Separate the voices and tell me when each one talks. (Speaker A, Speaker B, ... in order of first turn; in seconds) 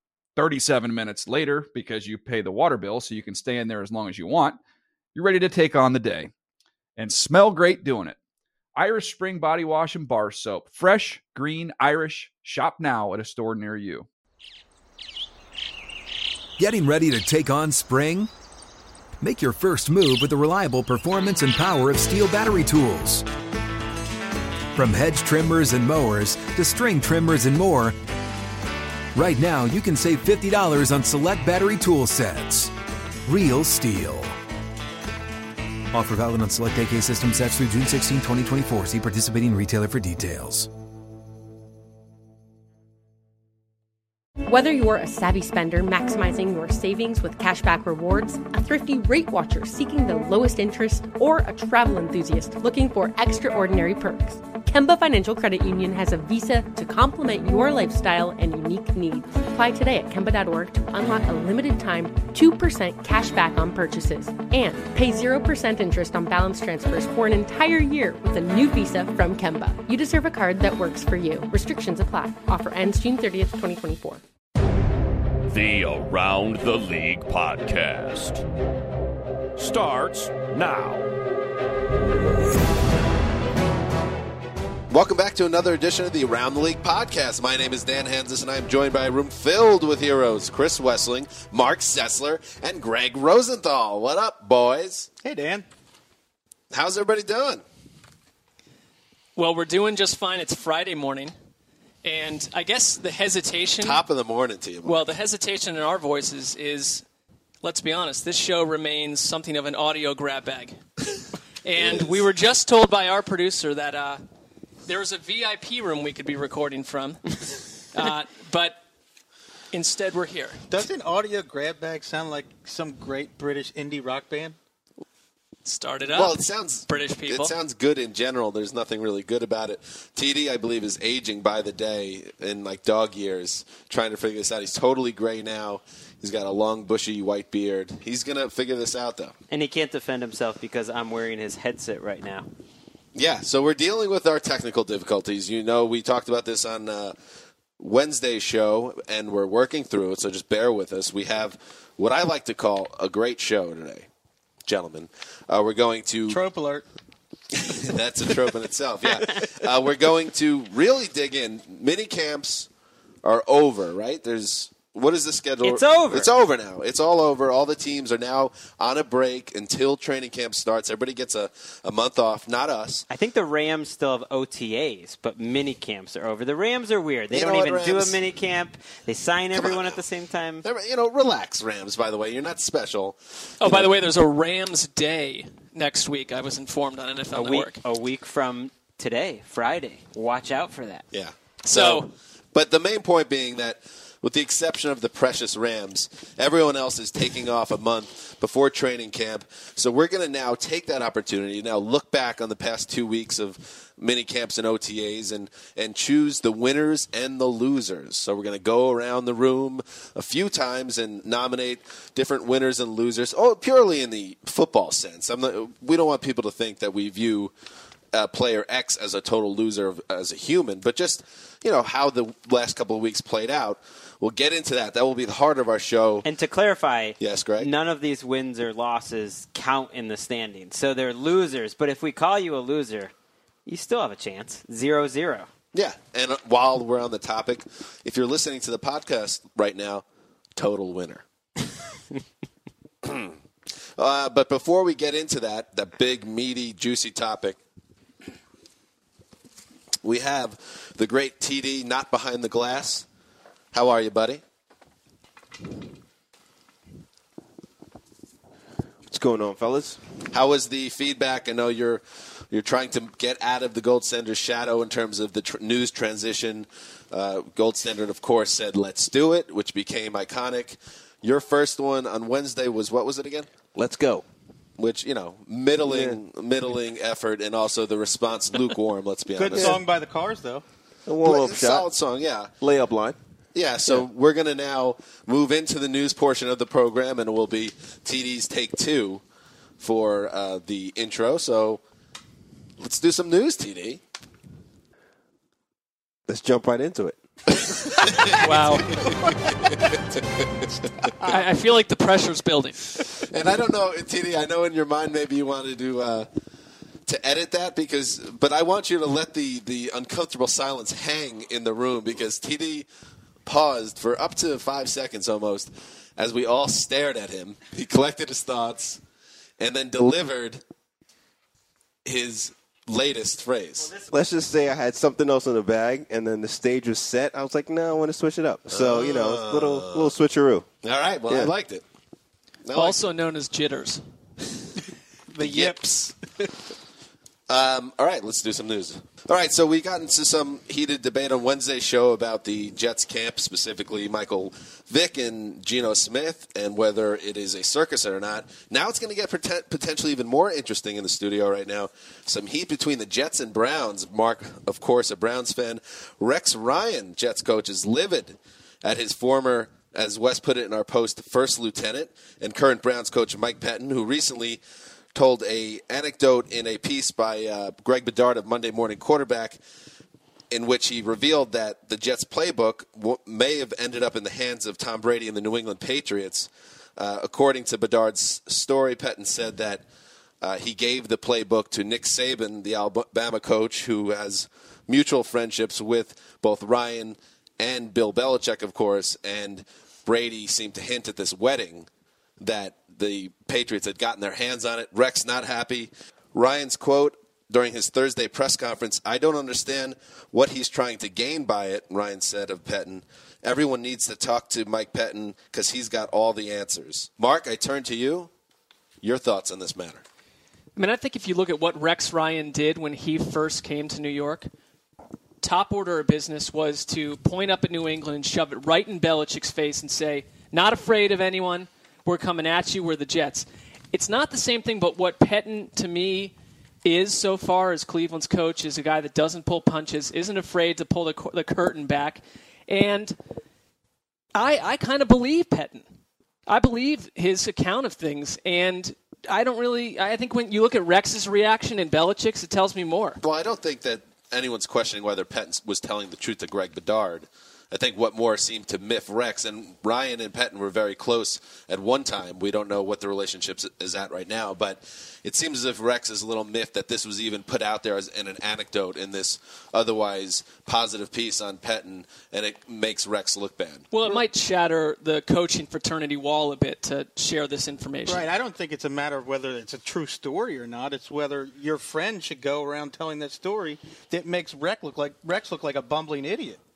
Speaker A: 0.3-4.6, 5.1-6.3, 7.0-8.2, 8.7-14.1
Speaker B: 16.6-18.3, 19.2-23.2, 24.7-27.9, 29.1-32.7, 33.2-34.4, 35.9-40.7
Speaker C: 44.5-74.2
Speaker D: 75.5-78.4, 79.6-81.1
Speaker E: 84.9-95.1, 96.7-97.6, 103.8-105.0, 111.7-112.2, 126.1-139.3, 143.1-147.1, 147.8-154.1, 154.6-156.4, 157.5-162.7, 163.2-173.0, 177.3-178.2, 179.5-180.0, 180.6-183.9, 191.1-217.5, 218.1-226.3, 227.2-227.7, 235.7-240.0, 240.6-241.2, 243.0-243.3, 244.0-247.6, 250.0-253.1, 253.7-254.4, 260.3-273.5, 274.8-279.8, 281.2-282.5, 283.5-289.2, 289.8-291.8, 292.8-294.0, 298.0-298.4, 303.2-306.3, 307.1-312.9, 313.4-319.0, 319.6-320.6, 322.0-323.9, 328.7-330.1, 330.8-331.8, 332.6-333.0, 335.4-335.9, 337.5-364.6, 365.1-369.6, 370.5-379.8, 380.4-391.9, 392.4-408.3, 409.0-410.0, 443.2-463.9
Speaker F: 95.2-95.7, 120.7-124.6, 156.3-156.8, 279.4-280.6, 299.2-299.7, 301.2-301.5, 335.3-336.1, 468.1-476.6
Speaker G: 99.3-101.3, 102.0-104.0, 104.8-107.0, 107.6-110.8, 111.6-114.2, 114.9-118.8, 119.7-120.7, 125.6-127.5, 183.6-187.8, 191.6-192.1, 298.4-298.9, 301.3-302.8, 332.7-334.0, 410.8-414.5, 415.4-426.3, 426.8-433.1, 434.3-435.9, 436.5-443.2, 463.9-468.2
Speaker H: 139.5-142.5, 165.6-166.3, 173.1-180.6, 187.3-191.0, 226.2-233.1, 233.7-235.5
Speaker I: 259.1-260.0, 273.7-274.2, 275.9-276.2, 281.1-281.9, 282.6-283.2, 296.3-297.5, 324.1-330.6